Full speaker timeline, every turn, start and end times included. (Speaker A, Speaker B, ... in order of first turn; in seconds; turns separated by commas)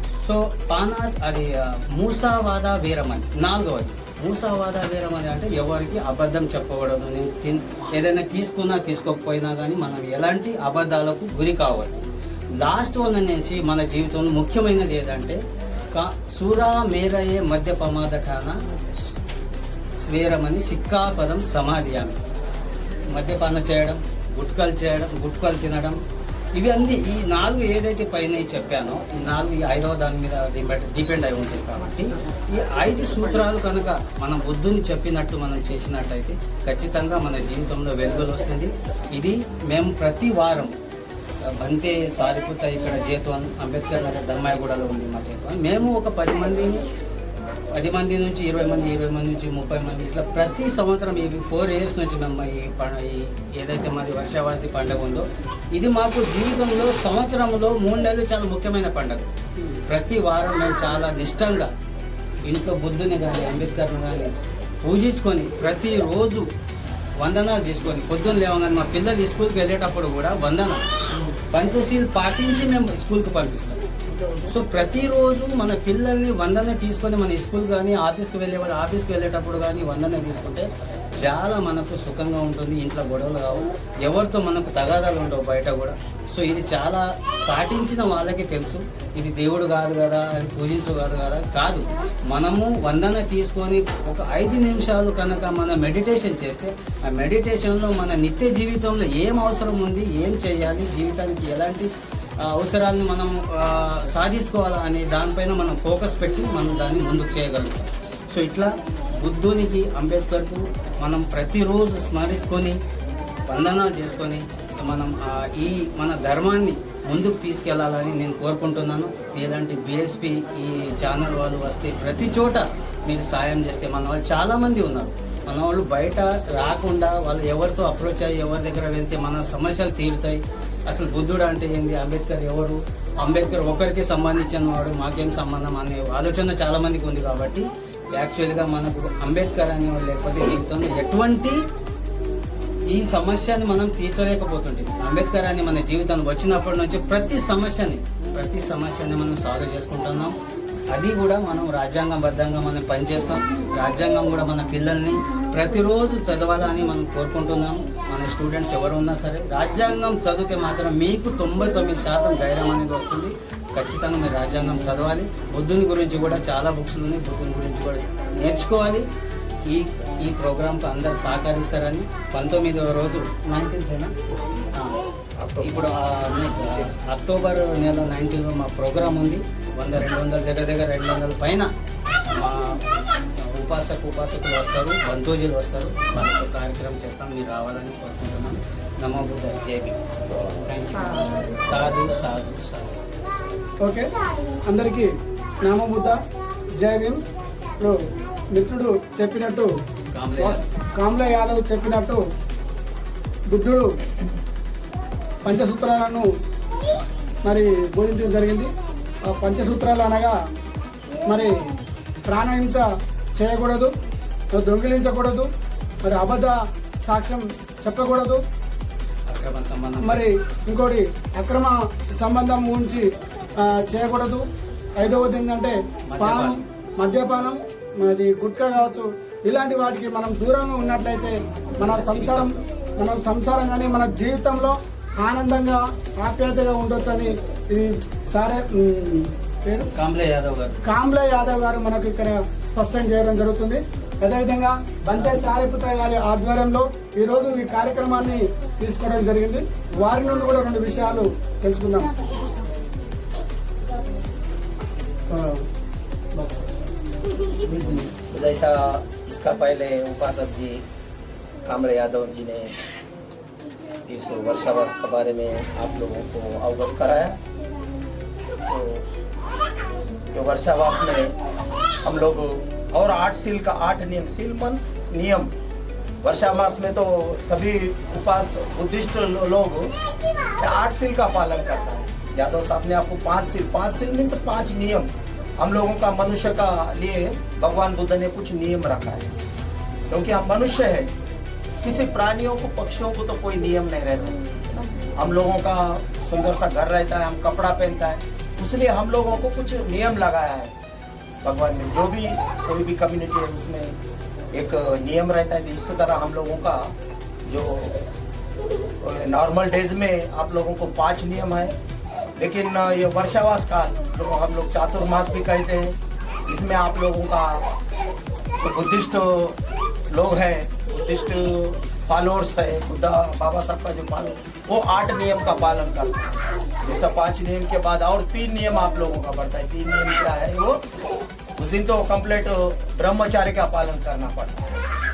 Speaker A: 0.2-15.4, Speaker A: 15.9-18.6, Speaker A: 20.0-22.2, Speaker A: 23.1-26.0, Speaker A: 26.5-40.8, Speaker A: 41.5-46.9, Speaker A: 47.7-59.3, Speaker A: 59.9-61.7, Speaker A: 62.5-66.5, Speaker A: 67.2-70.8, Speaker A: 71.5-73.8, Speaker B: 74.2-74.5, Speaker A: 74.5-101.9, Speaker A: 102.4-112.8, Speaker A: 113.5-141.6, Speaker A: 142.9-150.3, Speaker A: 150.9-169.1, Speaker A: 169.7-174.1, Speaker C: 175.4-176.9, Speaker A: 175.6-181.7, Speaker A: 182.3-190.0, Speaker A: 190.5-193.0, Speaker B: 193.8-194.1, Speaker B: 194.7-195.1, Speaker B: 195.6-196.2, Speaker B: 196.8-197.2, Speaker B: 198.5-199.7, Speaker A: 200.1-200.6, Speaker B: 200.4-202.2, Speaker B: 203.5-203.9, Speaker B: 205.4-206.2, Speaker B: 207.4-208.7, Speaker B: 209.3-210.3, Speaker B: 211.3-211.6, Speaker B: 212.3-212.8, Speaker B: 213.4-213.9, Speaker B: 214.5-215.5, Speaker B: 216.0-218.4, Speaker A: 219.3-220.3, Speaker B: 220.0-223.1, Speaker B: 223.7-224.4, Speaker B: 225.0-239.9, Speaker A: 226.1-226.6, Speaker A: 231.8-232.6, Speaker A: 239.9-240.8, Speaker B: 240.9-252.1, Speaker B: 255.3-255.6, Speaker B: 256.4-256.6, Speaker B: 257.6-258.1, Speaker C: 258.3-260.8, Speaker C: 261.6-262.8, Speaker C: 264.1-267.4, Speaker C: 268.7-269.1, Speaker C: 270.3-271.3, Speaker C: 272.1-275.5, Speaker C: 276.2-279.9, Speaker C: 280.6-289.3, Speaker C: 290.1-291.1, Speaker C: 291.8-300.7, Speaker C: 301.4-303.9, Speaker C: 304.5-306.9, Speaker C: 307.4-308.0, Speaker C: 309.0-311.8, Speaker C: 312.4-315.9, Speaker C: 316.5-317.6, Speaker C: 318.6-319.6, Speaker C: 320.1-330.8, Speaker C: 331.6-334.8